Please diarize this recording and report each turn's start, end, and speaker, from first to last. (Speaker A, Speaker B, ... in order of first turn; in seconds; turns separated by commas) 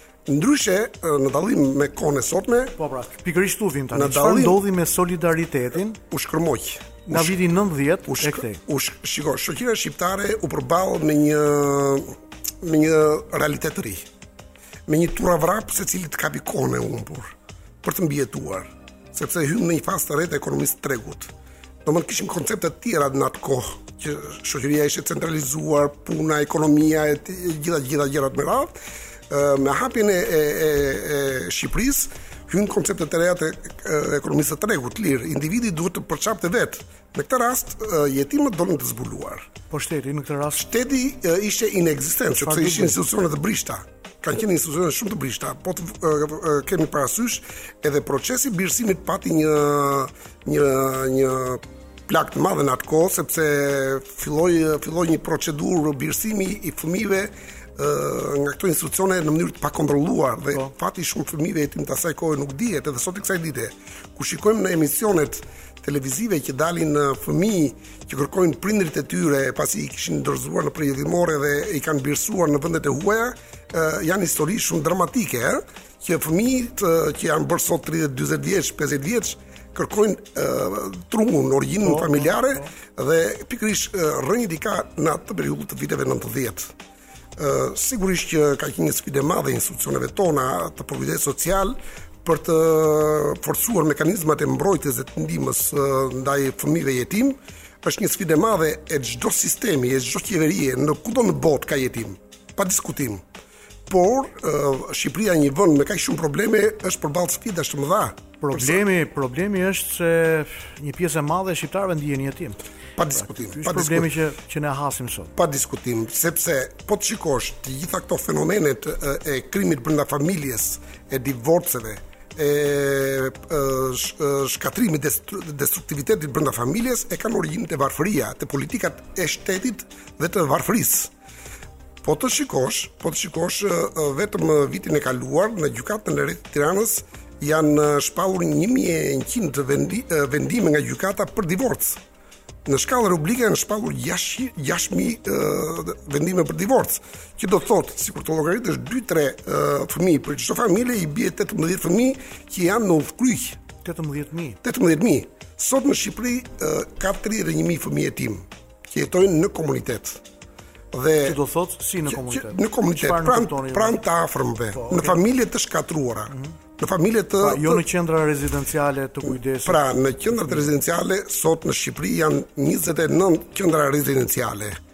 Speaker A: 0.2-2.7, Speaker B: 2.8-6.0, Speaker A: 3.9-4.6, Speaker A: 6.1-7.4, Speaker B: 7.0-8.6, Speaker A: 8.1-14.1, Speaker A: 14.9-21.3, Speaker A: 21.8-28.8, Speaker A: 29.3-39.5, Speaker B: 39.7-40.6, Speaker A: 40.5-86.7, Speaker B: 42.4-43.0, Speaker B: 81.8-82.7, Speaker A: 87.4-103.2, Speaker A: 103.9-108.8, Speaker B: 108.4-112.6, Speaker A: 113.0-114.1, Speaker B: 113.1-115.3, Speaker A: 115.3-131.1, Speaker A: 132.0-142.0, Speaker A: 142.7-153.6, Speaker B: 153.8-154.6, Speaker A: 154.6-160.2, Speaker A: 160.9-161.4, Speaker B: 161.2-164.0, Speaker A: 162.1-167.8, Speaker B: 164.7-165.2, Speaker B: 167.4-170.7, Speaker A: 169.6-174.8